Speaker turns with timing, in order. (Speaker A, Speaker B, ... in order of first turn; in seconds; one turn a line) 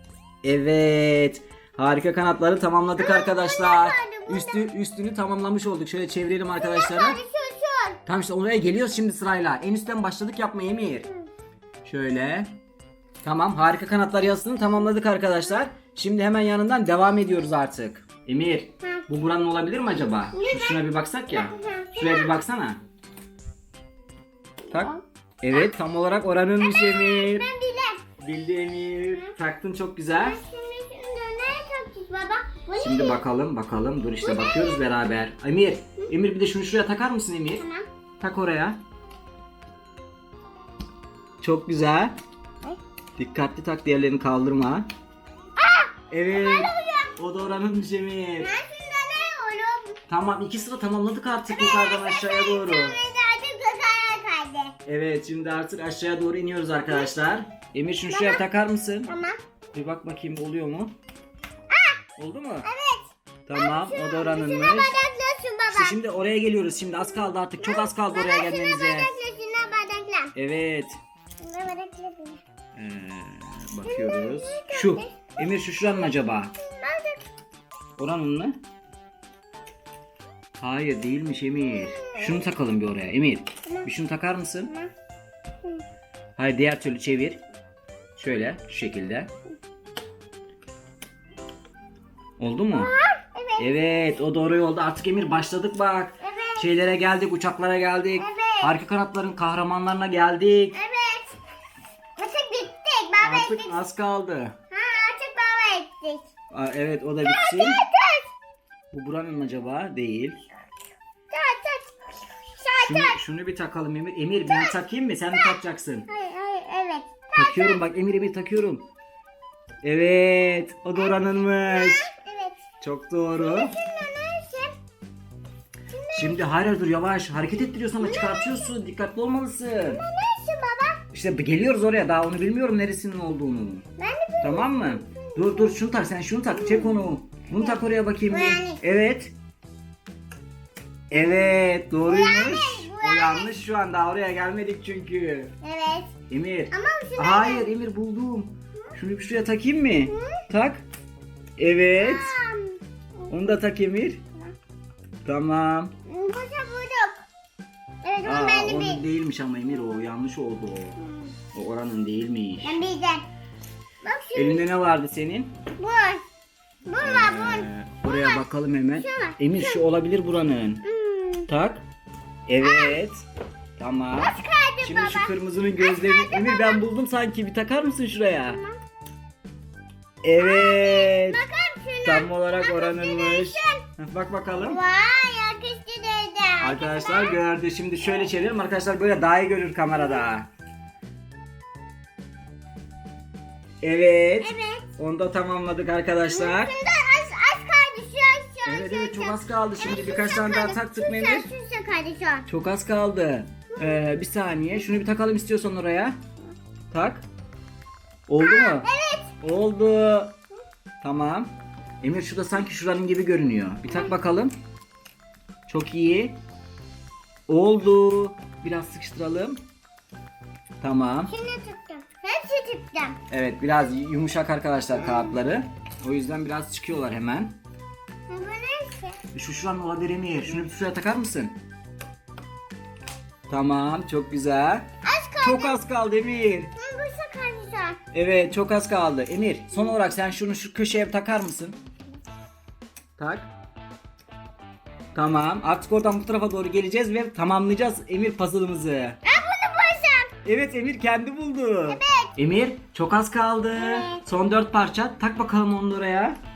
Speaker A: 0.4-7.2
Speaker B: 3.0-4.7
Speaker B: 6.5-8.0
Speaker A: 8.1-11.1
Speaker A: 11.8-12.5
Speaker A: 13.2-22.8
Speaker B: 18.8-19.1
Speaker B: 20.3-22.4
Speaker B: 24.7-25.0
Speaker A: 24.7-27.5
Speaker B: 26.6-28.0
Speaker A: 28.2-30.4
Speaker B: 30.1-33.2
Speaker A: 32.8-37.6
Speaker B: 34.2-34.9
Speaker B: 37.6-37.9
Speaker A: 38.2-38.8
Speaker A: 41.4-42.2
Speaker A: 43.2-44.9
Speaker B: 45.6-47.1
Speaker A: 46.1-48.5
Speaker B: 48.4-50.0
Speaker A: 50.1-53.0
Speaker B: 51.5-54.8
Speaker A: 54.9-59.1
Speaker B: 58.1-58.4
Speaker B: 59.1-59.4
Speaker A: 59.7-61.0
Speaker B: 61.7-62.0
Speaker A: 62.2-62.7
Speaker B: 62.6-66.0
Speaker A: 63.5-65.0
Speaker A: 65.7-69.1
Speaker B: 67.6-70.3
Speaker A: 70.3-71.0
Speaker B: 71.4-72.4
Speaker A: 72.8-76.5
Speaker B: 73.8-75.2
Speaker B: 76.6-77.2
Speaker A: 78.0-78.6
Speaker A: 80.6-84.7
Speaker B: 81.6-82.4
Speaker A: 86.4-87.4
Speaker A: 88.2-89.3
Speaker A: 92.4-92.9
Speaker B: 92.7-93.7
Speaker A: 93.6-100.8
Speaker B: 96.2-96.7
Speaker B: 98.2-98.7
Speaker B: 100.7-101.3
Speaker B: 102.2-103.8
Speaker A: 103.2-104.5
Speaker B: 104.7-106.3
Speaker A: 106.5-107.8
Speaker B: 107.2-108.3
Speaker A: 108.9-110.4
Speaker B: 111.3-112.0
Speaker B: 112.6-113.2
Speaker A: 112.8-116.1
Speaker B: 114.5-114.8
Speaker B: 115.3-117.8
Speaker A: 117.3-118.9
Speaker A: 119.8-122.1
Speaker B: 121.0-122.6
Speaker A: 122.8-123.7
Speaker B: 123.4-124.8
Speaker B: 125.9-126.5
Speaker A: 126.1-130.0
Speaker B: 128.0-128.7
Speaker B: 129.9-131.0
Speaker A: 131.1-133.8
Speaker B: 134.0-135.7
Speaker A: 134.4-139.3
Speaker B: 136.5-137.8
Speaker B: 138.3-138.8
Speaker A: 141.1-145.5
Speaker B: 142.1-143.5
Speaker B: 145.6-146.1
Speaker A: 146.3-150.8
Speaker B: 146.7-147.7
Speaker B: 150.1-150.4
Speaker A: 151.6-152.4
Speaker B: 152.0-153.5
Speaker A: 153.3-154.2
Speaker A: 155.2-155.9
Speaker B: 156.1-157.2
Speaker B: 158.0-159.0
Speaker A: 158.2-161.0
Speaker B: 161.0-161.3
Speaker A: 161.5-162.8
Speaker B: 162.6-163.3
Speaker B: 164.0-164.7
Speaker A: 164.3-165.6
Speaker B: 165.8-166.2
Speaker B: 166.9-168.4
Speaker A: 167.0-170.8
Speaker B: 169.0-169.8
Speaker B: 170.8-171.5
Speaker A: 171.5-171.8
Speaker A: 172.5-173.2
Speaker B: 172.6-173.0
Speaker A: 173.8-178.6
Speaker B: 174.2-176.9
Speaker B: 178.4-178.8
Speaker A: 180.2-181.4
Speaker B: 180.3-183.8
Speaker A: 182.0-184.8
Speaker B: 184.6-187.4
Speaker A: 186.6-190.5
Speaker A: 193.8-196.7
Speaker B: 194.4-194.9
Speaker B: 196.3-202.5
Speaker A: 198.7-201.5
Speaker A: 202.5-206.2
Speaker B: 203.7-204.0
Speaker A: 206.9-207.2
Speaker A: 208.3-208.9
Speaker B: 208.4-209.3
Speaker A: 209.4-210.4
Speaker A: 211.0-214.6
Speaker A: 215.7-216.4
Speaker A: 217.5-219.6
Speaker A: 220.8-221.3
Speaker B: 221.3-223.2
Speaker A: 223.3-227.6
Speaker B: 228.3-229.2
Speaker A: 229.3-231.6
Speaker A: 233.5-234.9
Speaker B: 235.0-235.8
Speaker A: 235.4-236.7
Speaker B: 236.8-238.0
Speaker A: 238.1-241.8
Speaker A: 243.2-243.5
Speaker A: 245.1-249.2
Speaker B: 249.2-250.3
Speaker A: 250.4-256.4
Speaker B: 251.9-252.3
Speaker B: 253.7-254.2